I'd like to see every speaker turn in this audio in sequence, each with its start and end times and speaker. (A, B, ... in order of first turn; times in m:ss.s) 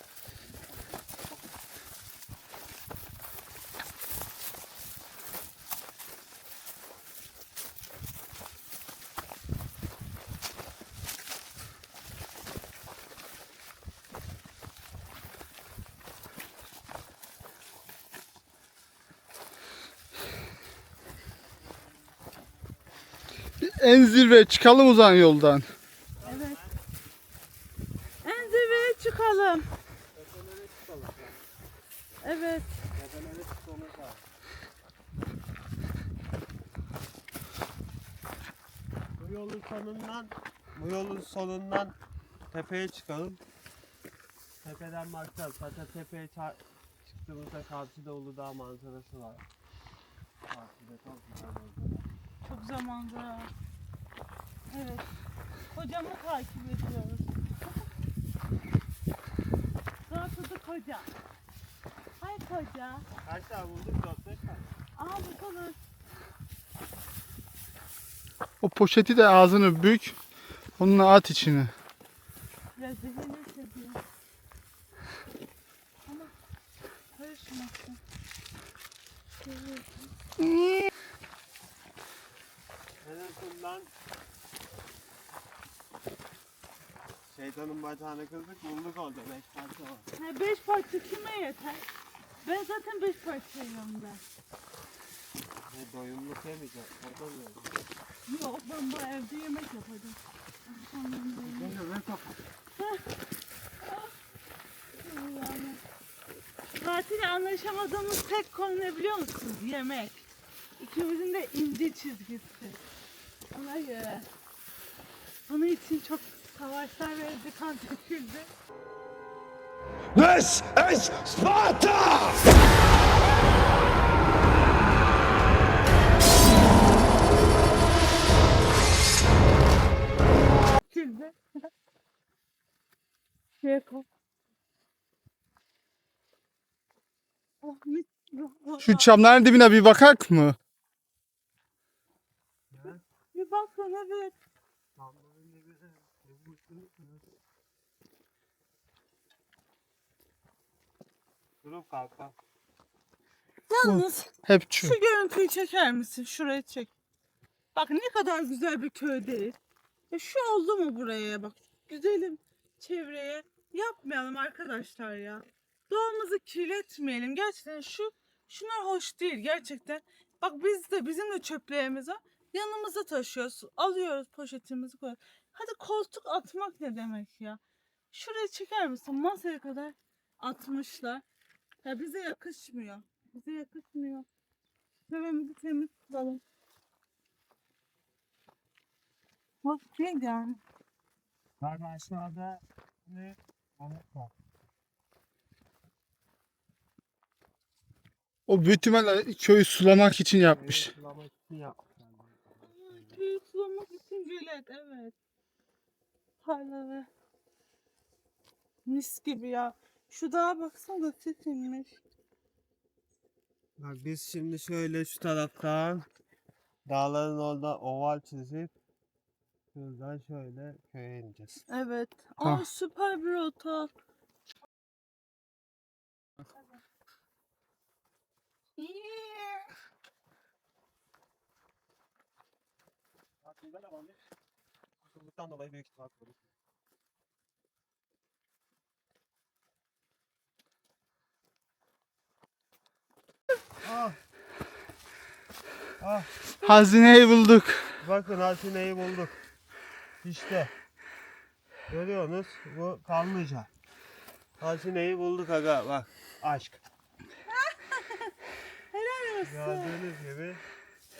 0:00.4-0:00.7 A
0:23.6-0:25.7 B
0:26.2-0:26.8 A
0:26.2-0:26.6 C
0:28.2-0:28.9 A
0:28.2-0:29.6 C
0:30.2-0:31.4 A
0:32.2-0:32.7 C
0:32.9-0:34.2 A
0:39.2-0:41.9 A
0:42.5-0:43.4 A
0:44.6-0:49.4 A
0:50.5-0:52.0 A
0:52.4-0:53.5 C
0:54.7-0:55.1 C
0:55.7-0:57.3 C
1:00.1-1:01.1 C
1:02.2-1:03.1 C
1:03.2-1:04.8 A
1:05.0-1:05.8 C
1:08.6-1:10.2 B
1:10.8-1:11.7 B
1:12.8-1:14.0 C
1:16.1-1:16.3 C
1:17.2-1:18.0 C
1:19.4-1:19.9 C
1:20.4-1:20.9 B
1:23.0-1:23.9 A
1:27.3-1:30.1 A
1:30.1-1:31.8 C
1:32.4-1:34.2 C
1:35.7-1:37.7 A
1:38.3-1:41.8 C
1:41.4-1:42.4 A
1:42.8-1:43.1 C
1:43.8-1:44.1 C
1:45.0-1:45.8 C
1:46.8-1:50.3 C
1:50.8-1:52.8 C
1:53.5-1:54.3 C
1:55.5-1:58.5 C
2:00.2-2:02.4 D
2:10.9-2:11.4 C
2:13.6-2:14.1 C
2:17.6-2:19.1 C
2:18.8-2:20.6 B
2:22.7-2:23.0 A
2:23.3-2:24.3 C
2:25.0-2:27.2 A
2:31.6-2:32.3 A
2:33.7-2:36.9 C
2:33.8-2:35.0 B
2:37.8-2:39.6 C
2:40.1-2:57.6 C
2:58.1-3:01.2 C
3:01.8-3:04.3 C
3:05.1-3:06.4 C
3:09.6-3:10.6 C
3:11.6-3:14.3 A
3:18.5-3:20.9 B
3:20.5-3:23.2 A
3:22.6-3:25.2 C
3:26.4-3:27.1 C
3:28.9-3:31.9 C
3:33.8-3:36.0 A
3:36.9-3:38.7 A
3:39.7-3:41.6 A
3:41.7-3:43.9 C
3:48.8-3:49.7 C
3:53.4-3:54.2 A
3:55.1-3:56.4 A
4:03.8-4:04.2 A
4:06.0-4:06.3 A
4:06.6-4:08.0 B
4:08.0-4:09.4 A
4:10.2-4:10.7 A
4:11.9-4:13.7 A
4:14.6-4:16.8 A
4:17.5-4:18.4 C
4:18.9-4:19.9 C
4:19.4-4:20.6 A